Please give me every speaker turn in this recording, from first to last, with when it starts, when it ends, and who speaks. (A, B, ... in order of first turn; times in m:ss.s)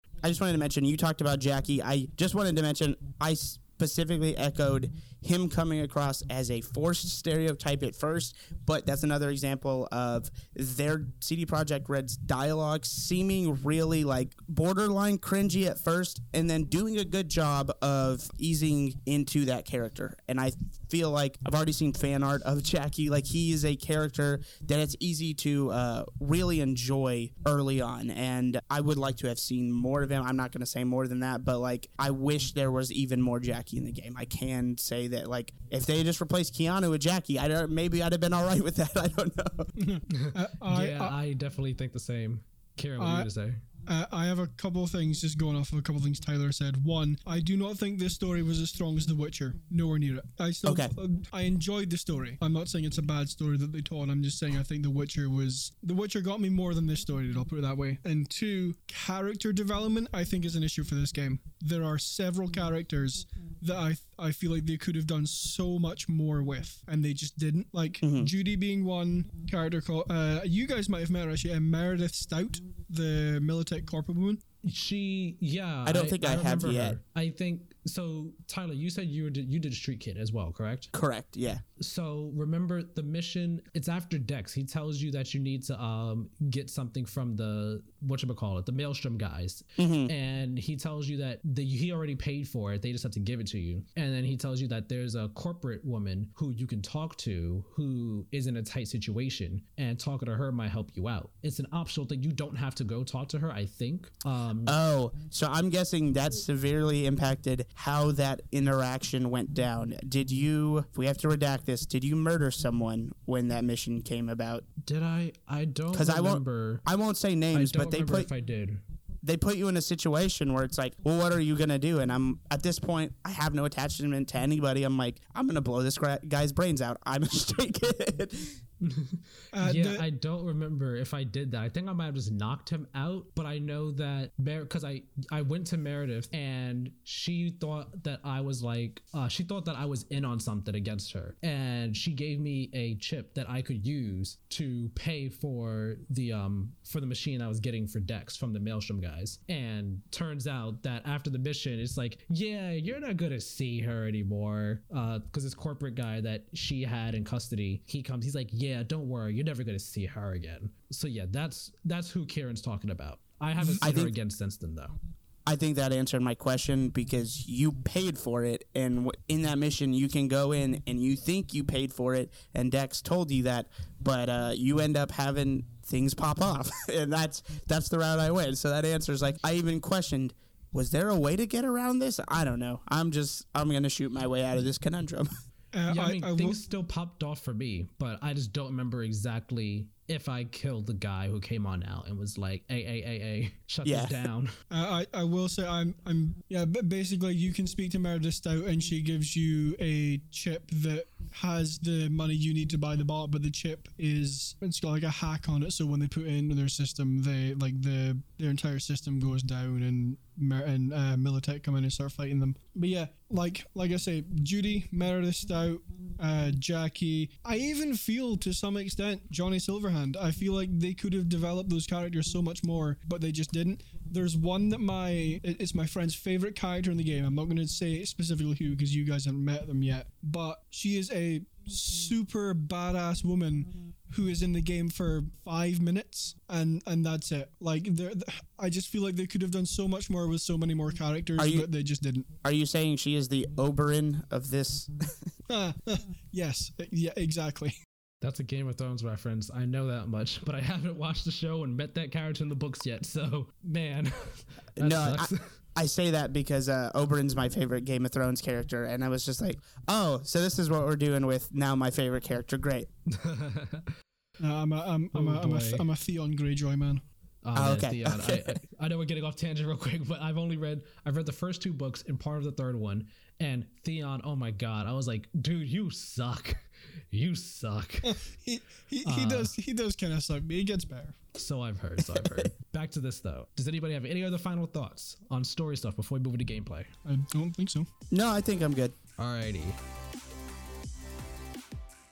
0:00.2-0:39.7 A
0:39.8-0:41.1 B
0:40.1-0:43.6 C
0:43.0-0:43.3 B
0:43.9-1:14.4 B
0:50.6-0:50.9 A
1:08.0-1:08.3 A
1:14.6-1:20.9 C
1:15.8-1:17.0 A
1:20.9-1:21.6 A
1:21.8-1:44.8 C
1:29.8-1:30.1 A
1:44.6-1:54.6 A
1:54.8-1:56.8 C
1:55.9-1:58.3 A
1:57.5-1:58.8 C
1:59.2-2:08.5 A
2:08.8-2:45.0 C
2:09.5-2:10.0 B
2:43.8-2:44.1 A
2:45.5-3:05.3 A
3:05.7-3:06.6 B
3:05.9-3:14.5 C
3:13.8-3:14.1 A
3:14.7-4:02.3 B
4:01.4-4:01.7 A
4:02.4-4:05.2 A
4:05.5-4:07.7 B
4:08.2-4:15.5 C
4:14.8-4:22.9 A
4:23.1-4:23.9 C
4:24.4-4:27.0 B
4:25.1-4:25.8 C
4:27.4-4:38.2 C
4:27.5-4:28.6 A
4:38.0-4:41.2 B
4:39.0-4:39.5 C
4:41.3-4:46.9 C
4:42.1-4:42.5 A
4:47.0-4:47.9 B
4:48.1-4:48.9 A
4:49.2-4:49.8 C